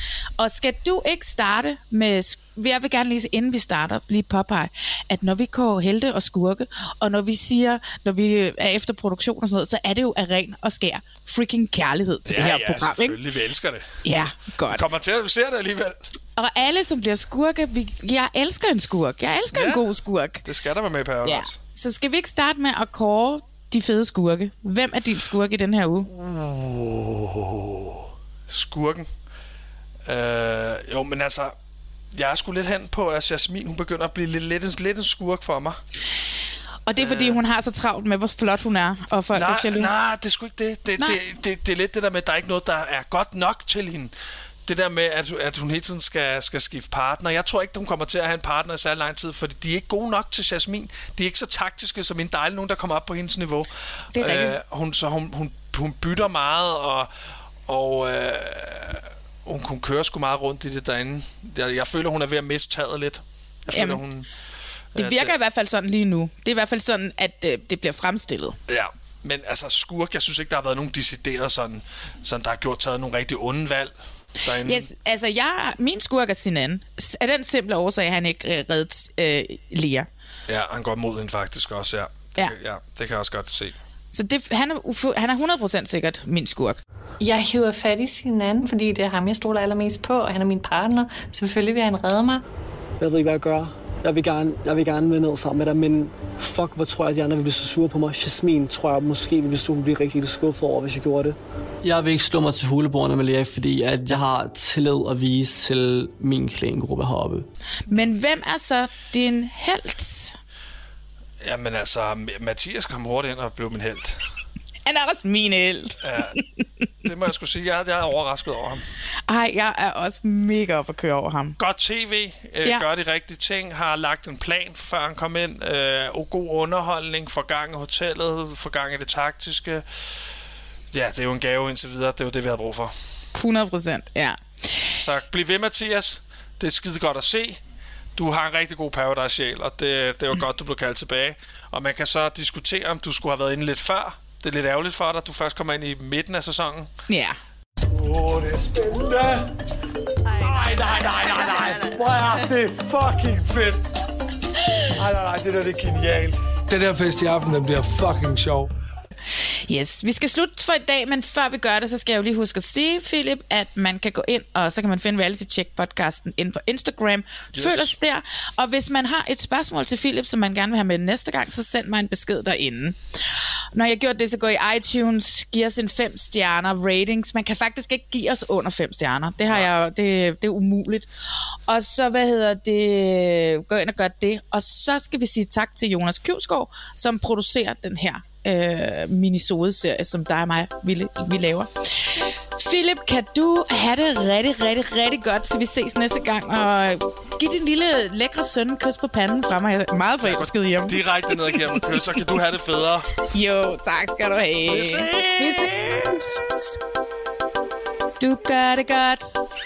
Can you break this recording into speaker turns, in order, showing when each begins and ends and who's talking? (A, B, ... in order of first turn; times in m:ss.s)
0:00.4-0:13.2 A
0:12.2-0:14.0 B
0:14.0-0:14.8 A
0:14.7-0:16.1 B
0:16.4-0:20.4 A
0:19.5-0:19.8 B
0:20.4-0:21.6 B
0:21.2-0:26.1 A
0:26.1-0:29.1 B
0:30.0-0:31.5 B
0:32.1-0:35.8 B
0:36.8-0:39.9 A
0:37.0-0:37.4 B
0:39.3-0:44.1 B
0:44.6-0:57.1 B
0:54.1-0:54.6 A
0:57.7-1:04.3 B
1:03.7-1:04.0 A
1:04.9-1:05.3 B
1:05.0-1:08.6 A
1:08.7-1:14.9 B
1:14.6-1:20.1 A
1:20.5-1:23.8 B
1:24.1-1:26.8 A
1:27.2-1:32.4 C
1:33.0-1:47.4 D
1:47.9-1:50.4 A
1:51.4-1:54.2 B
1:54.8-1:56.4 A
1:56.0-1:56.3 B
1:57.0-1:58.8 B
1:59.3-2:01.6 A
2:01.6-2:10.0 B
2:10.9-2:12.9 B
2:13.3-2:14.8 A
2:15.0-2:17.6 B
2:18.2-2:26.9 B
2:27.1-2:27.4 A
2:27.9-2:29.5 E
2:30.3-2:33.8 E
2:35.0-2:36.4 E
2:36.7-2:38.7 F
2:39.7-3:01.1 A
2:47.5-2:47.9 B
3:01.7-3:21.0 A
3:20.2-3:23.2 B
3:21.5-3:21.8 A
3:23.3-3:26.3 A
3:24.7-3:26.4 B
3:28.2-3:29.2 A